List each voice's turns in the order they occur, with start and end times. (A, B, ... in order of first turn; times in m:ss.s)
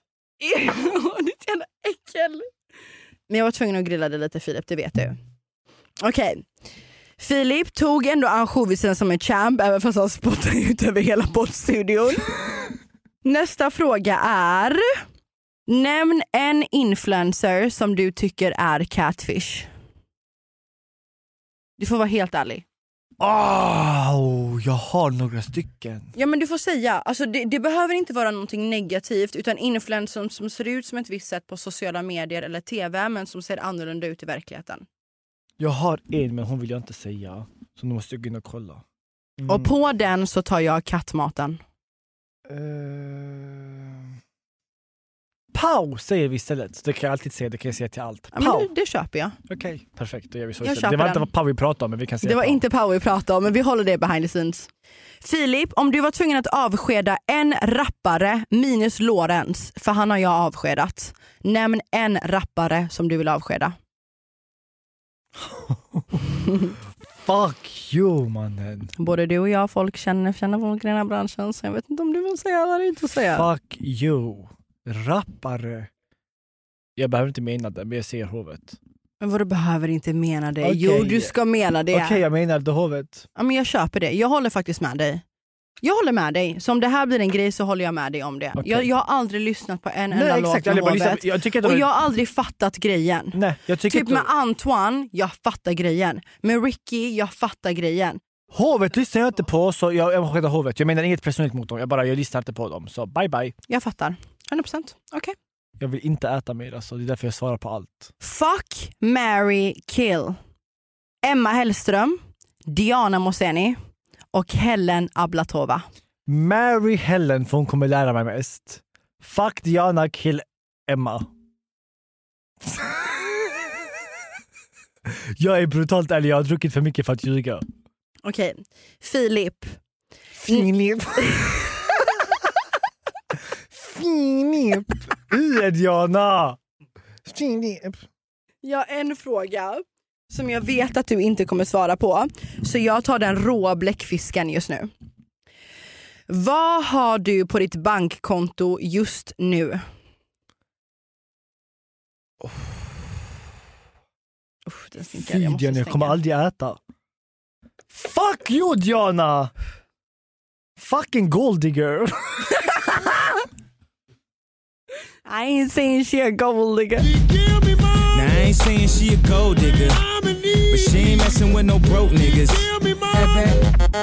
0:00.4-0:02.5 A
0:03.3-0:05.2 A
0:06.0-0:06.5 A
0:07.2-0:12.4 A
0:13.2-0:14.8 A
0:15.7-0:19.7 A
0:21.8-0:22.6 A
0:23.2-0:26.1 B
0:26.1-0:34.8 A
0:35.6-0:38.8 B
0:39.4-0:39.7 B
0:39.5-0:41.6 A
0:42.5-0:44.1 B
0:45.5-0:48.7 B
0:48.3-0:49.4 A
0:49.5-0:52.6 B
0:50.6-0:51.3 A
0:52.2-0:54.7 A
0:55.2-1:03.7 A
1:05.4-1:06.3 B
1:07.2-1:08.9 B
1:09.0-1:13.5 A
1:13.3-1:15.9 B
1:17.0-1:18.8 B
1:19.2-1:22.2 A
1:20.6-1:21.3 B
1:21.9-1:23.3 B
1:23.4-1:25.2 A
1:25.8-1:38.2 A
1:28.6-1:28.9 B
1:30.1-1:31.9 B
1:33.3-1:34.3 B
1:38.5-1:43.5 B
1:43.7-1:45.3 A
1:45.8-1:48.1 B
1:48.2-1:50.4 A
1:51.2-1:53.8 A
1:54.3-1:55.8 A
1:56.3-2:01.3 B
2:02.6-2:03.1 B
2:05.0-2:07.6 B
2:08.2-2:09.8 A
2:10.4-2:11.8 B
2:11.2-2:11.7 A
2:13.7-2:16.6 B
2:17.2-2:18.0 B
2:18.6-2:24.9 A
2:26.3-2:29.8 A
2:32.4-2:32.9 B
2:34.6-2:36.2 A
2:35.1-2:36.8 B
2:37.9-2:39.5 B
2:40.8-2:43.0 B
2:45.2-2:47.2 A
2:47.2-2:48.0 B
2:48.1-2:50.1 C
2:50.4-2:50.7 B
2:50.7-2:53.5 C